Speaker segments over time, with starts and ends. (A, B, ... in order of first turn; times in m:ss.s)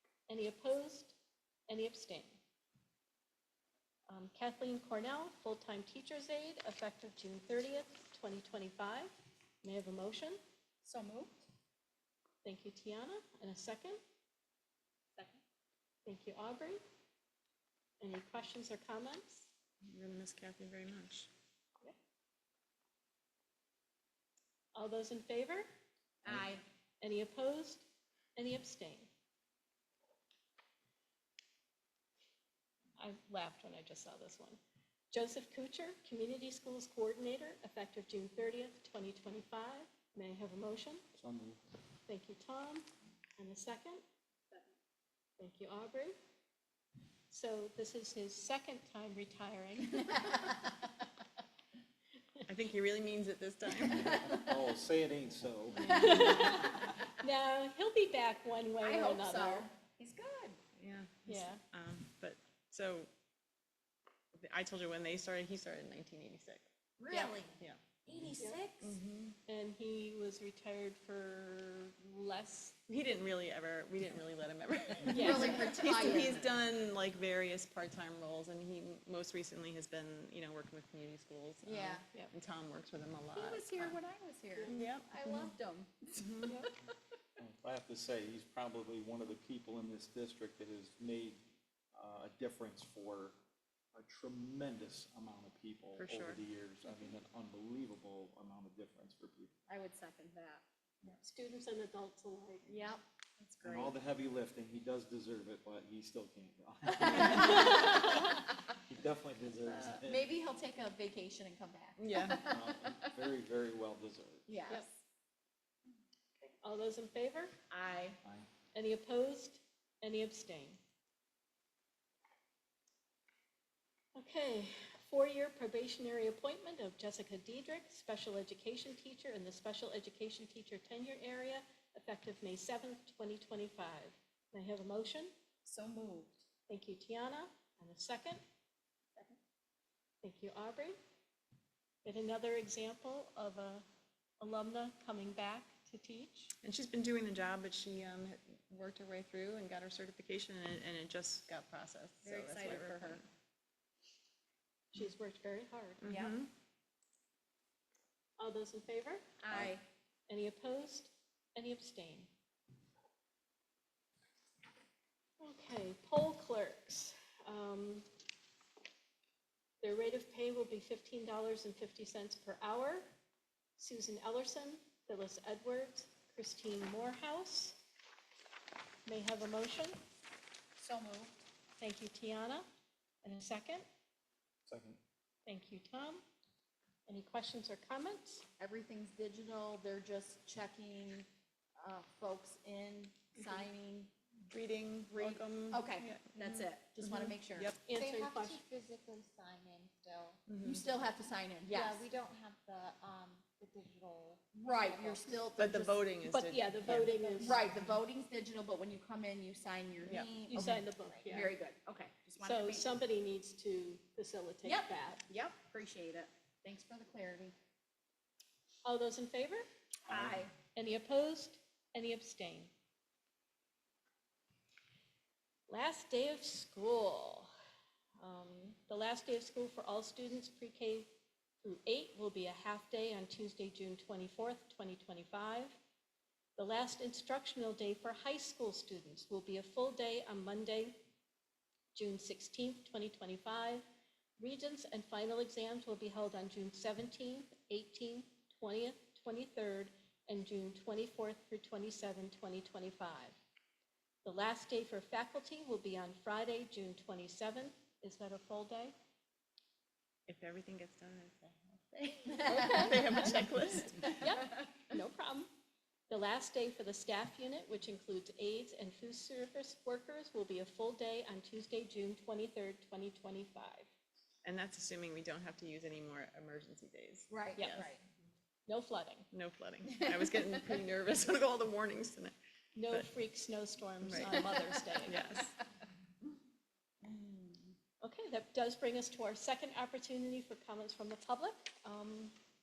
0:00.3-0:01.2 A
0:01.7-0:02.4 A
0:04.1-0:10.4 A
0:10.8-0:11.4 B
0:12.4-0:14.0 A
0:15.2-0:15.4 B
0:16.0-0:16.8 A
0:18.0-0:19.5 A
0:19.8-0:21.3 C
0:24.7-0:25.6 A
0:26.2-0:26.6 B
0:27.0-0:27.8 A
0:28.4-0:29.1 A
0:33.0-0:34.6 A
0:35.1-0:41.0 A
0:41.2-0:41.6 D
0:42.1-0:42.8 A
0:43.4-0:44.0 A
0:45.4-0:46.1 A
0:47.3-0:50.5 A
0:52.5-0:54.4 C
0:53.9-0:56.6 D
0:55.8-0:56.6 C
0:55.8-0:59.7 A
0:58.8-1:00.6 B
1:00.8-1:03.1 C
1:01.3-1:01.6 A
1:04.4-1:07.8 C
1:07.0-1:09.0 B
1:08.8-1:09.4 C
1:09.5-1:12.8 A
1:12.9-1:24.0 C
1:15.1-1:16.0 A
1:15.1-1:16.5 B
1:21.6-1:22.0 B
1:23.3-1:26.6 B
1:24.5-1:24.8 A
1:24.7-1:25.5 C
1:26.2-1:26.6 C
1:27.4-1:31.4 D
1:31.9-1:33.3 D
1:33.9-1:39.5 D
1:36.0-1:36.4 C
1:39.7-1:40.6 B
1:41.0-1:42.8 A
1:42.7-1:43.0 B
1:43.4-1:43.9 E
1:43.6-1:48.3 D
1:47.1-1:47.8 B
1:47.5-1:47.8 A
1:48.8-1:50.3 D
1:50.0-1:53.1 B
1:52.0-1:52.4 C
1:52.4-1:54.5 D
1:54.5-1:54.8 B
1:56.4-1:57.5 A
1:57.7-1:58.2 B
1:58.7-2:00.8 A
2:04.1-2:15.3 A
2:15.6-2:16.4 B
2:16.7-2:18.4 A
2:20.2-2:21.0 A
2:22.0-2:23.8 A
2:24.4-2:26.5 A
2:26.6-2:33.2 C
2:32.2-2:33.2 B
2:34.9-2:36.1 A
2:36.0-2:36.5 C
2:36.0-2:36.4 B
2:38.4-2:39.2 A
2:39.4-2:39.8 B
2:40.3-2:42.3 A
2:45.4-2:48.0 A
2:49.8-2:53.0 A
2:53.8-2:57.8 A
2:59.0-3:00.0 A
3:00.8-3:01.3 B
3:01.8-3:02.6 A
3:03.2-3:03.8 A
3:04.7-3:05.0 D
3:05.4-3:06.2 A
3:07.1-3:08.4 A
3:08.6-3:11.2 B
3:11.8-3:14.1 B
3:14.4-3:17.8 C
3:15.1-3:17.8 B
3:17.8-3:20.5 E
3:17.8-3:18.6 A
3:20.5-3:20.8 C
3:20.6-3:22.0 B
3:21.6-3:25.5 E
3:24.5-3:26.0 B
3:25.5-3:27.1 C
3:26.2-3:27.6 A
3:27.2-3:27.6 E
3:27.4-3:32.9 B
3:30.4-3:31.5 A
3:32.4-3:35.2 A
3:34.6-3:37.5 B
3:38.8-3:39.6 A
3:40.1-3:40.5 B
3:40.1-3:40.4 D
3:40.7-3:42.7 A
3:45.7-3:47.5 A
3:48.2-3:51.1 A
3:51.6-3:55.8 A
3:56.6-4:01.0 A
4:01.9-4:03.8 A
4:04.4-4:13.3 A
4:14.2-4:18.9 A
4:20.3-4:24.2 C
4:22.4-4:23.3 A
4:24.0-4:25.5 A
4:26.1-4:33.9 A
4:34.4-4:37.9 C
4:37.3-4:38.0 B
4:37.6-4:37.9 A
4:38.7-4:39.3 A
4:39.3-4:42.3 C
4:42.7-4:45.4 A
4:44.0-4:44.5 C
4:45.0-4:45.6 C
4:47.0-4:47.7 B
4:48.0-4:52.3 A